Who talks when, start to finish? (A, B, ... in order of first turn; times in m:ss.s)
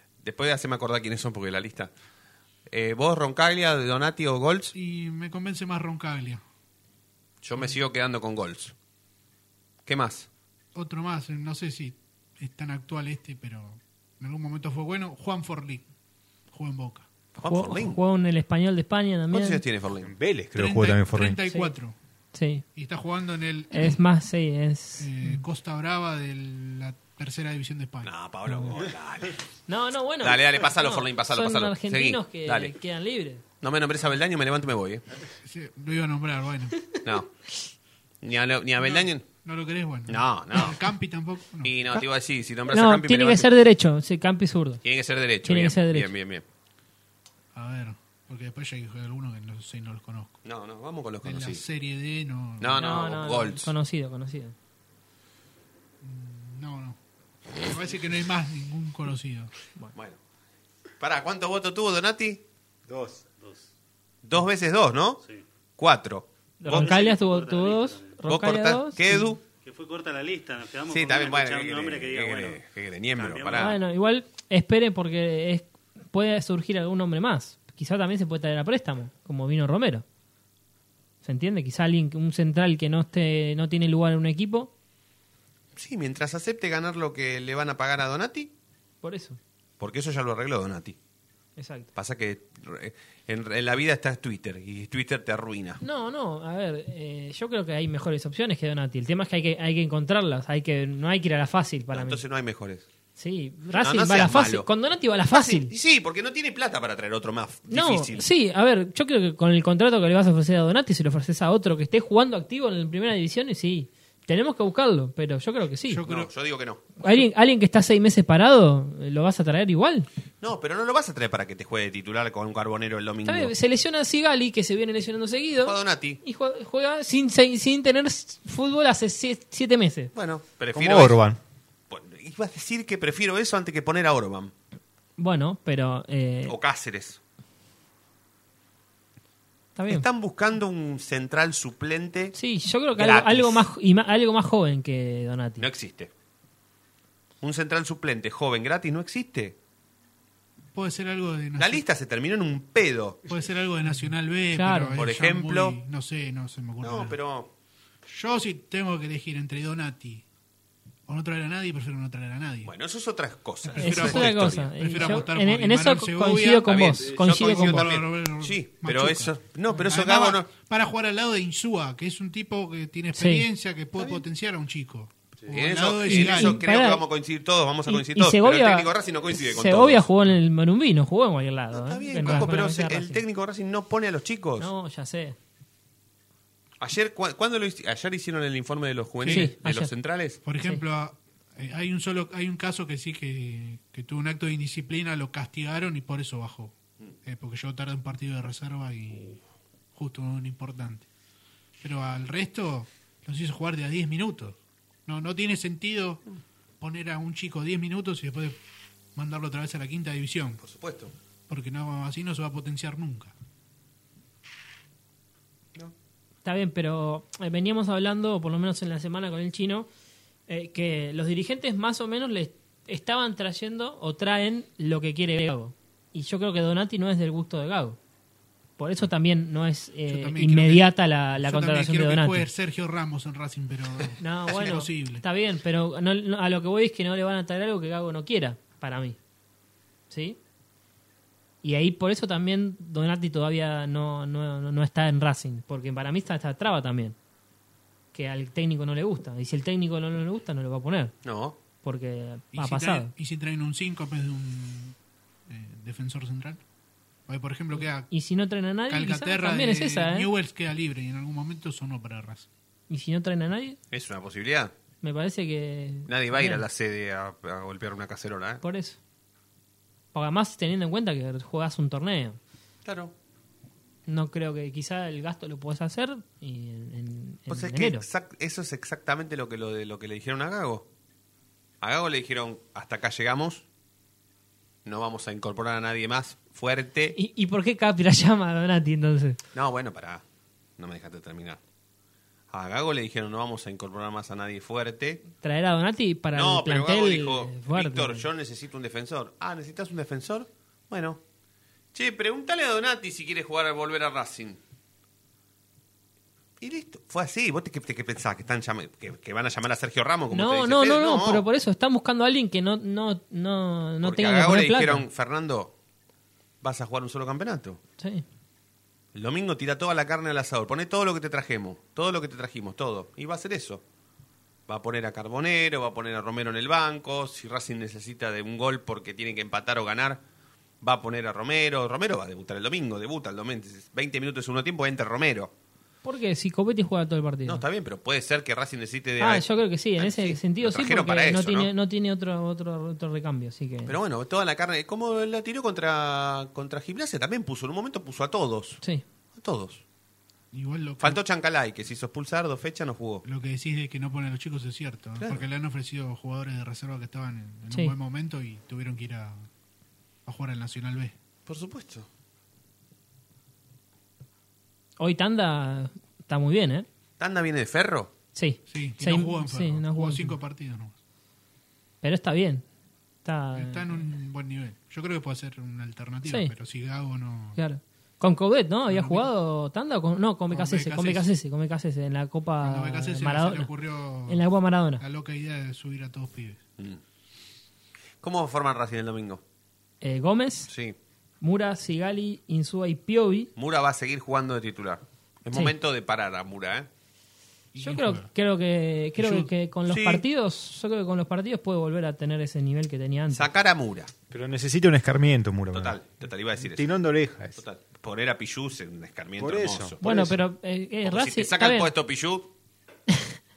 0:00.2-0:01.9 A
0:02.7-0:04.8 A
0:04.8-0:06.4 B
0:07.4-0:08.7 A
0:09.9-0:10.3 A
0:10.8-0:15.8 B
0:16.5-0:17.1 B
0:17.4-0:19.6 C
0:17.4-0:18.0 A
0:19.3-0:20.1 A
0:20.0-0:21.4 D
0:20.6-0:22.0 B
0:21.5-0:21.7 C
0:22.3-0:22.6 C
0:22.8-0:24.0 B
0:23.7-0:25.4 C
0:25.0-0:28.8 B
0:28.0-0:29.4 A
0:29.7-0:33.4 C
0:30.2-0:32.7 A
0:33.6-0:35.0 A
0:35.4-0:36.9 B
0:37.0-0:37.3 A
0:38.2-0:39.3 A
0:38.8-0:41.7 B
0:40.1-0:40.8 A
0:41.6-0:43.5 A
0:42.7-0:44.8 C
0:44.8-0:46.4 A
0:45.4-0:46.1 C
0:47.5-0:50.4 B
0:50.4-0:51.6 A
0:51.2-0:52.8 B
0:52.6-0:53.7 A
0:52.8-0:54.6 C
0:56.0-0:57.0 B
0:57.6-0:59.5 B
1:01.0-1:02.4 A
1:03.0-1:03.6 E
1:04.2-1:05.2 A
1:05.8-1:07.0 A
1:06.6-1:09.3 C
1:06.7-1:08.2 E
1:08.3-1:09.4 A
1:09.6-1:12.6 E
1:10.9-1:13.8 A
1:13.2-1:13.7 E
1:13.6-1:20.0 C
1:21.2-1:24.7 C
1:25.8-1:28.5 A
1:29.0-1:29.4 C
1:29.8-1:31.0 A
1:31.6-1:31.9 C
1:32.0-1:35.8 A
1:35.8-1:42.2 C
1:41.9-1:42.9 A
1:43.2-1:45.7 C
1:43.8-1:44.7 A
1:45.3-1:48.3 A
1:47.7-1:56.0 C
1:55.9-1:56.3 B
1:56.1-1:56.8 A
1:57.0-2:00.1 C
2:00.4-2:03.5 A
2:03.2-2:10.1 C
2:05.6-2:06.2 A
2:10.1-2:11.2 A
2:10.7-2:11.4 D
2:11.9-2:14.5 A
2:15.2-2:16.6 C
2:16.5-2:17.2 A
2:19.8-2:20.0 C
2:19.9-2:22.4 A
2:22.4-2:25.7 C
2:23.0-2:23.7 A
2:25.6-2:26.1 A
2:27.4-2:29.6 A
2:30.7-2:31.8 B
2:31.6-2:33.2 A
2:33.3-2:37.2 B
2:34.5-2:35.0 C
2:35.0-2:35.8 A
2:36.8-2:37.5 A
2:38.1-2:40.2 B
2:41.1-2:42.7 B
2:42.6-2:45.2 A
2:43.7-2:56.6 B
2:43.8-2:47.9 C
2:46.7-2:50.5 A
2:53.2-2:53.5 C
2:54.0-2:54.2 A
2:55.5-3:00.1 A
2:56.0-2:57.0 C
2:57.9-3:03.2 C
3:01.7-3:04.7 A
3:02.2-3:02.5 B
3:04.6-3:05.4 C
3:06.8-3:10.4 A
3:09.2-3:09.5 B
3:09.3-3:09.9 C
3:10.4-3:19.4 B
3:20.0-3:21.1 B
3:21.8-3:26.2 B
3:26.8-3:28.6 B
3:29.2-3:30.6 B
3:30.6-3:31.1 A
3:31.5-3:33.3 B
3:36.4-3:39.9 C
3:40.5-3:48.0 C
3:48.8-3:52.5 C
3:50.1-3:55.2 B
3:54.2-3:59.2 C
4:00.1-4:00.4 C
4:01.6-4:07.2 C
4:08.1-4:11.1 C
4:11.2-4:11.6 A
4:11.8-4:13.1 C
4:12.5-4:15.0 B
4:15.5-4:16.6 B
4:17.3-4:18.1 B
4:17.8-4:20.3 C
4:18.9-4:22.5 B
4:22.9-4:23.8 C
4:23.9-4:24.7 A
4:25.0-4:26.6 C
4:26.1-4:28.6 A
4:28.6-4:29.0 C
4:30.1-4:32.4 C
4:32.8-4:33.1 A
4:34.1-4:38.0 C
4:37.5-4:40.9 A
4:41.8-4:43.6 A
4:44.8-4:47.2 A
4:47.2-4:49.4 C
4:49.5-4:50.2 A
4:50.8-4:51.6 A
4:52.5-4:55.2 A
4:55.4-4:58.2 C
4:56.3-5:01.2 A
5:01.9-5:04.6 A
5:06.6-5:11.4 A
5:10.3-5:15.0 C
5:14.0-5:15.7 A
5:16.6-5:17.8 A
5:18.0-5:18.2 C
5:19.1-5:23.8 A
5:24.7-5:30.2 A
5:30.8-5:35.5 A
5:36.0-5:37.6 C
5:37.5-5:41.7 A
5:39.2-5:44.0 C
5:43.9-5:48.8 A
5:49.4-5:49.8 A
5:50.5-5:51.2 B
5:51.0-5:53.2 A
5:53.2-5:59.5 B
5:55.2-5:55.4 A
6:00.3-6:01.2 B
6:01.5-6:02.1 A
6:05.0-6:06.9 C
6:07.2-6:08.1 A
6:08.4-6:10.4 C
6:08.7-6:10.9 B
6:12.0-6:12.6 C
6:13.2-6:14.1 C
6:13.5-6:17.6 B
6:16.2-6:16.5 C
6:17.6-6:23.7 C
6:18.9-6:19.3 B
6:20.5-6:21.3 B
6:22.6-6:24.4 B
6:24.3-6:25.0 C
6:25.0-6:26.6 B
6:28.2-6:29.4 A
6:30.0-6:30.7 C
6:30.7-6:31.0 A
6:31.4-6:33.5 C
6:33.6-6:36.9 A
6:37.7-6:38.3 B
6:37.8-6:43.5 C
6:39.2-6:39.5 B
6:39.9-6:40.2 A
6:43.3-6:44.1 A
6:44.3-6:46.0 D
6:45.7-6:46.9 A
6:46.6-6:47.6 D
6:47.6-6:50.3 A
6:49.4-6:50.3 D
6:50.0-6:51.9 C
6:51.0-6:52.5 A